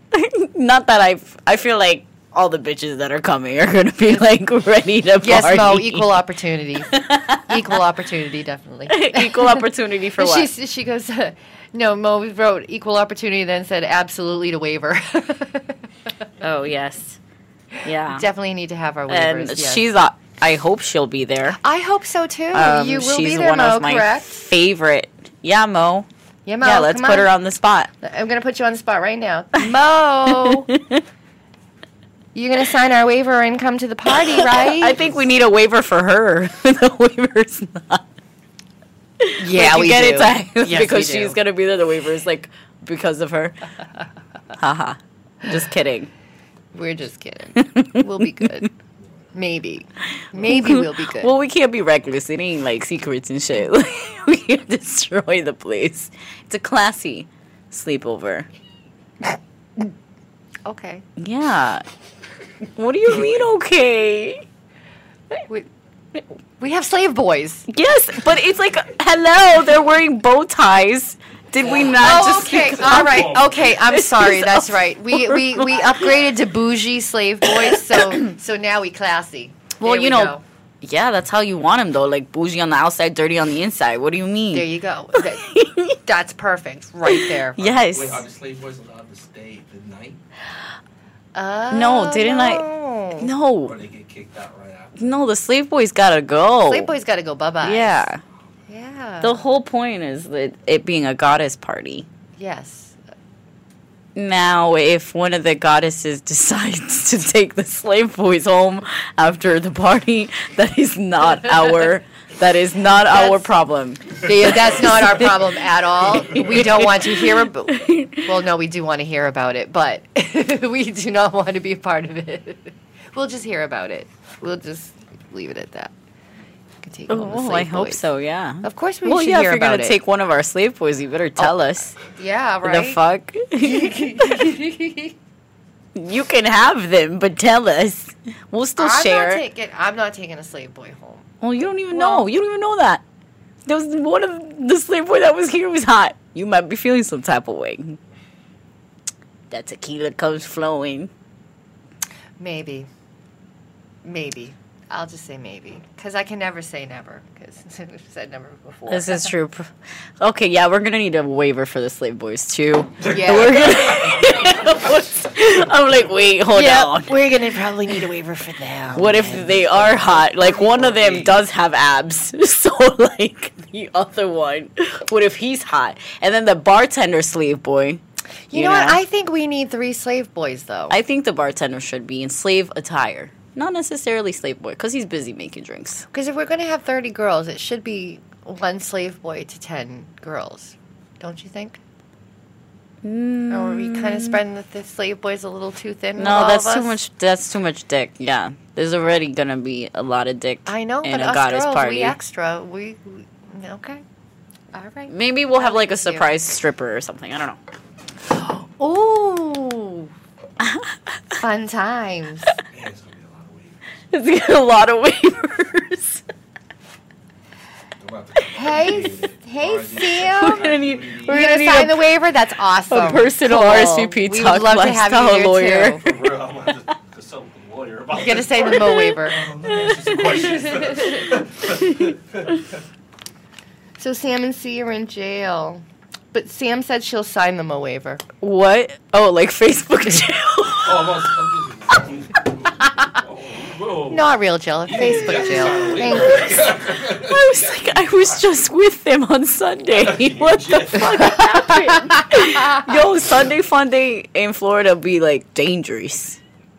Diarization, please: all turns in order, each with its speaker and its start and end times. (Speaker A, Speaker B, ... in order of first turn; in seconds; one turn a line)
Speaker A: 0.1-6.1
Speaker B: 5.2-15.8
Speaker A: 6.9-7.8
Speaker A: 8.9-10.5
Speaker A: 16.4-17.2
Speaker A: 17.8-18.2
Speaker B: 18.1-19.8
Speaker A: 19.1-21.6
Speaker B: 21.6-24.4
Speaker A: 22.5-26.1
Speaker B: 26.4-27.3
Speaker A: 26.6-27.9
Speaker B: 28.0-30.7
Speaker A: 30.3-31.0
Speaker B: 32.3-35.0
Speaker A: 34.1-38.0
Speaker A: 39.2-43.5
Speaker B: 39.4-41.4
Speaker A: 44.6-46.1
Speaker B: 46.7-48.7
Speaker A: 47.6-48.2
Speaker B: 49.3-51.3
Speaker A: 50.3-58.5
Speaker B: 60.6-61.0
Speaker A: 61.2-61.8
Speaker A: 62.7-64.4
Speaker C: 63.1-63.5
Speaker B: 66.6-67.7
Speaker A: 67.7-76.1
Speaker B: 71.6-80.4
Speaker C: 71.7-73.6
Speaker A: 77.6-78.2
Speaker A: 79.8-86.0
Speaker B: 84.5-85.5
Speaker B: 86.0-87.8
Speaker A: 87.1-88.2
Speaker C: 87.6-90.2
Speaker B: 91.3-93.3
Speaker A: 91.7-92.6
Speaker A: 93.2-93.8
Speaker C: 93.6-95.1
Speaker A: 95.0-96.9
Speaker B: 96.6-98.1
Speaker A: 97.6-98.2
Speaker B: 98.7-99.3
Speaker A: 99.2-102.1
Speaker B: 102.4-103.0
Speaker A: 104.1-115.4
Speaker B: 112.9-113.5
Speaker B: 114.1-125.9
Speaker A: 116.3-118.2
Speaker B: 126.8-128.0
Speaker A: 127.1-131.9
Speaker B: 128.6-130.0
Speaker B: 131.4-133.0
Speaker A: 132.6-134.5
Speaker B: 133.6-135.1
Speaker A: 135.9-139.4
Speaker B: 138.8-142.3
Speaker A: 141.4-143.0
Speaker A: 143.7-148.0
Speaker A: 149.5-151.1
Speaker B: 152.4-152.9
Speaker B: 154.0-159.3
Speaker A: 158.9-167.2
Speaker B: 163.0-163.8
Speaker B: 166.5-171.4
Speaker A: 168.9-178.0
Speaker B: 178.5-180.9
Speaker A: 178.5-179.0
Speaker A: 180.9-186.0
Speaker B: 186.1-191.8
Speaker A: 193.0-194.4
Speaker B: 193.5-197.0
Speaker A: 196.2-202.2
Speaker B: 200.7-204.0
Speaker B: 204.7-206.3
Speaker A: 205.1-207.6
Speaker B: 208.3-210.1
Speaker A: 210.6-210.9
Speaker B: 211.4-212.5
Speaker C: 212.7-214.0
Speaker A: 214.1-216.2
Speaker C: 218.0-221.4
Speaker B: 218.5-220.7
Speaker A: 220.3-222.2
Speaker B: 221.2-226.0
Speaker A: 222.9-226.3
Speaker C: 226.0-232.8
Speaker B: 228.1-229.5
Speaker A: 228.7-229.0
Speaker A: 229.6-231.1
Speaker B: 230.2-231.3
Speaker A: 231.7-232.1
Speaker B: 234.0-238.2
Speaker A: 238.4-241.2
Speaker C: 240.8-248.6
Speaker B: 244.1-246.8
Speaker A: 247.1-256.4
Speaker C: 249.9-251.8
Speaker B: 251.2-252.9
Speaker C: 252.9-253.3